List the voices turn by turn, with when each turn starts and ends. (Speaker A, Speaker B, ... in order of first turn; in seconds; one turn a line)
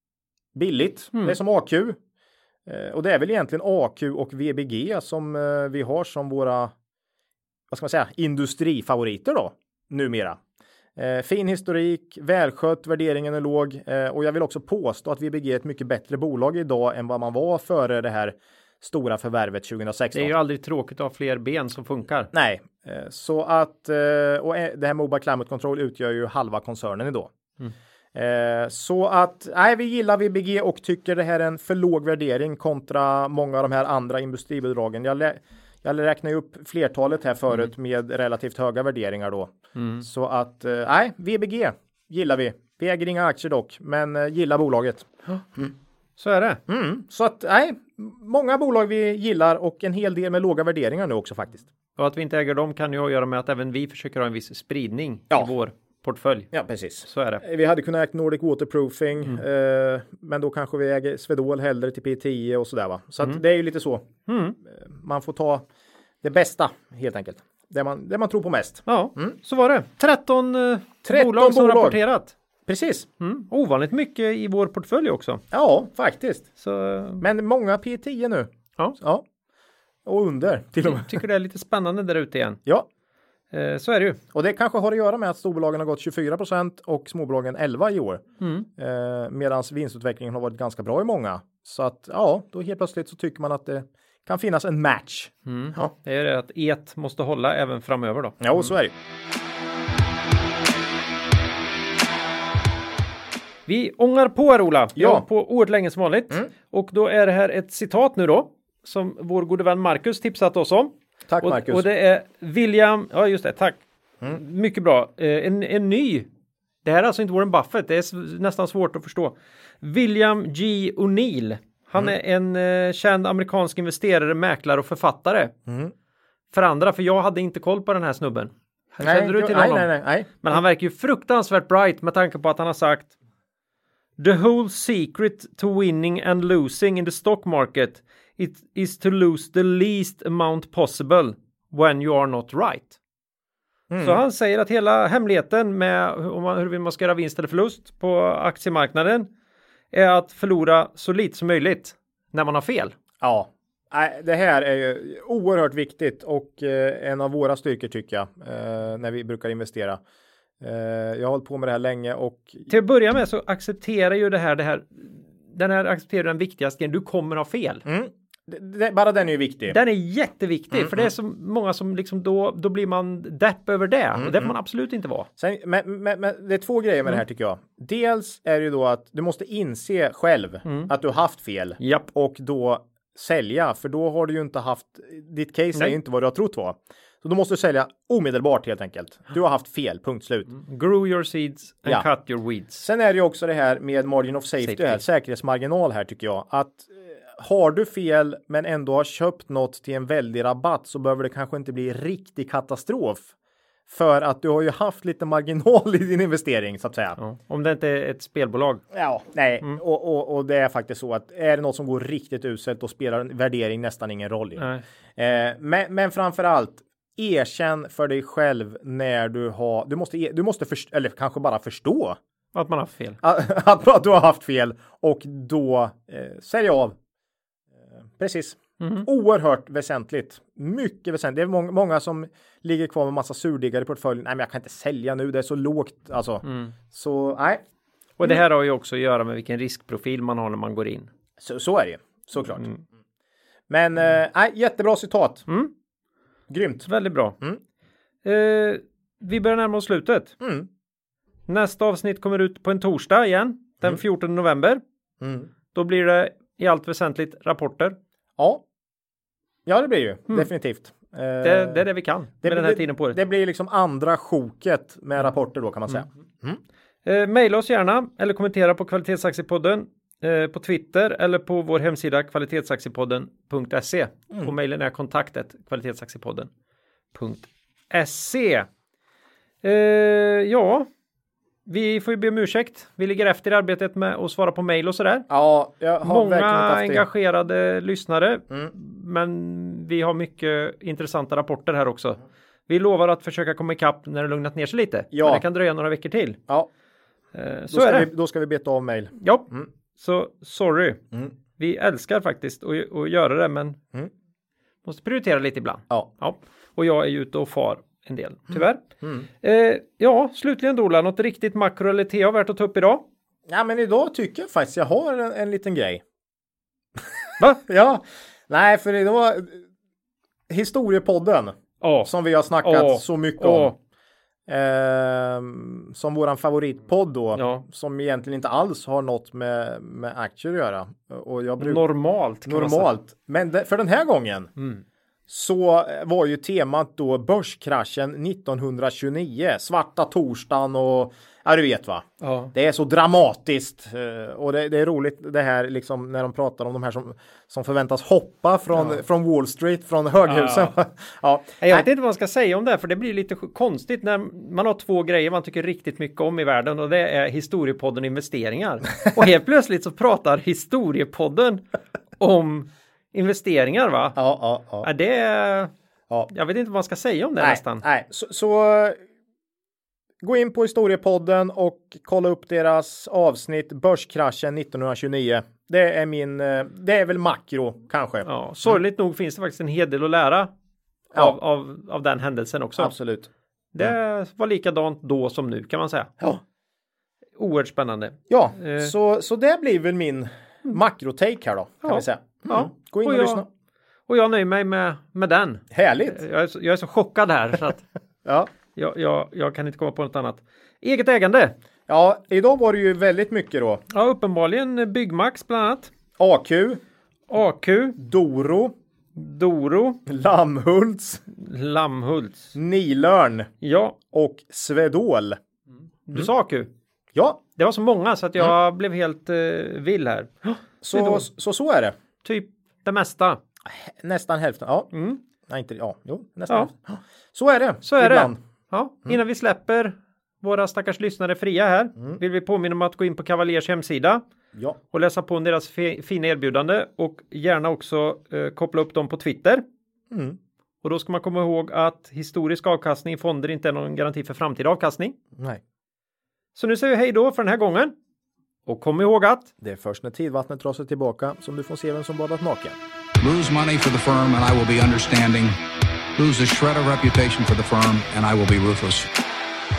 Speaker A: 0.5-2.0
Speaker A: 2.6-6.7
Speaker A: 7.7-10.4
Speaker A: 10.9-20.3
Speaker B: 20.1-22.3
Speaker A: 22.3-27.3
Speaker A: 28.1-45.7
Speaker B: 39.8-40.0
Speaker B: 46.2-46.6
Speaker A: 46.7-51.7
Speaker B: 52.0-56.5
Speaker A: 56.5-64.1
Speaker B: 57.0-57.4
Speaker B: 64.3-64.6
Speaker A: 64.6-65.7
Speaker A: 66.2-69.3
Speaker B: 68.9-72.3
Speaker A: 71.0-72.0
Speaker A: 72.7-73.1
Speaker B: 73.2-75.4
Speaker A: 75.5-76.5
Speaker B: 76.6-77.2
Speaker A: 77.2-79.2
Speaker A: 80.0-81.2
Speaker B: 80.8-82.6
Speaker B: 83.5-84.2
Speaker A: 84.3-95.9
Speaker B: 88.4-88.7
Speaker B: 95.5-98.7
Speaker A: 98.4-98.9
Speaker B: 103.7-116.3
Speaker A: 105.0-105.2
Speaker A: 111.3-111.8
Speaker B: 116.8-125.5
Speaker A: 125.7-125.9
Speaker B: 126.5-129.9
Speaker A: 129.0-130.4
Speaker B: 130.4-133.1
Speaker B: 134.2-142.9
Speaker A: 143.9-144.2
Speaker B: 144.0-149.3
Speaker B: 149.9-152.9
Speaker A: 153.2-160.0
Speaker A: 160.6-162.7
Speaker B: 162.7-167.8
Speaker A: 167.8-169.8
Speaker B: 169.7-175.3
Speaker A: 170.7-171.1
Speaker A: 174.2-174.5
Speaker A: 175.4-190.5
Speaker B: 180.7-180.9
Speaker B: 181.8-182.1
Speaker B: 190.5-192.8
Speaker A: 192.8-203.3
Speaker B: 194.6-195.0
Speaker A: 203.9-207.2
Speaker B: 207.2-208.8
Speaker A: 208.9-222.2
Speaker B: 214.6-214.8
Speaker B: 222.5-223.2
Speaker A: 223.2-227.0
Speaker A: 228.2-237.6
Speaker B: 228.8-229.1
Speaker B: 236.4-236.7
Speaker B: 238.2-241.1
Speaker A: 241.4-242.7
Speaker A: 243.7-245.4
Speaker A: 246.5-246.9
Speaker B: 246.9-247.4
Speaker B: 248.2-250.4
Speaker A: 250.4-250.7
Speaker B: 251.5-254.8
Speaker A: 255.2-255.5
Speaker B: 255.7-258.0
Speaker A: 258.4-258.6
Speaker A: 259.6-261.8
Speaker B: 261.4-263.2
Speaker A: 262.4-266.6
Speaker B: 267.0-276.5
Speaker B: 277.1-278.7
Speaker B: 279.6-280.9
Speaker B: 281.6-285.3
Speaker A: 285.3-287.0
Speaker B: 286.0-296.4
Speaker A: 295.1-295.4
Speaker B: 297.3-298.1
Speaker A: 297.7-299.7
Speaker B: 299.2-303.8
Speaker B: 304.8-308.8
Speaker A: 308.5-309.2
Speaker B: 309.4-313.0
Speaker A: 313.5-316.0
Speaker A: 317.0-319.6
Speaker A: 320.5-323.7
Speaker B: 321.8-322.1
Speaker B: 322.6-323.7
Speaker A: 324.5-331.8
Speaker B: 327.3-327.6
Speaker B: 331.6-332.9
Speaker A: 332.4-334.5
Speaker A: 335.3-351.9
Speaker B: 342.2-342.5
Speaker B: 350.3-350.7
Speaker B: 351.6-361.6
Speaker B: 362.2-364.2
Speaker A: 364.1-364.9
Speaker B: 364.8-365.7
Speaker B: 366.3-367.8
Speaker A: 367.4-369.0
Speaker A: 370.2-378.3
Speaker B: 378.2-380.5
Speaker B: 381.1-382.9
Speaker A: 382.8-383.3
Speaker B: 383.7-386.1
Speaker B: 387.4-388.9
Speaker A: 388.3-393.5
Speaker B: 391.8-393.4
Speaker B: 394.1-397.8
Speaker A: 395.7-396.2
Speaker B: 398.7-401.5
Speaker A: 401.9-403.8
Speaker B: 403.9-405.9
Speaker A: 406.2-406.8
Speaker B: 407.3-408.0
Speaker A: 408.0-408.7
Speaker B: 409.1-410.0
Speaker A: 410.1-411.2
Speaker B: 411.3-412.5
Speaker A: 412.5-413.5
Speaker B: 413.6-414.0
Speaker A: 414.1-415.4
Speaker B: 416.1-416.7
Speaker A: 417.1-417.4
Speaker B: 417.6-421.2
Speaker A: 420.8-421.9
Speaker B: 422.2-423.4
Speaker A: 423.6-424.9
Speaker B: 424.9-425.2
Speaker A: 425.4-428.4
Speaker B: 427.8-434.2
Speaker B: 434.9-439.6
Speaker A: 440.1-440.4
Speaker B: 440.8-445.2
Speaker A: 445.4-445.6
Speaker B: 446.5-447.9
Speaker B: 448.6-449.5
Speaker A: 449.6-452.8
Speaker C: 453.2-455.6
Speaker C: 456.2-459.1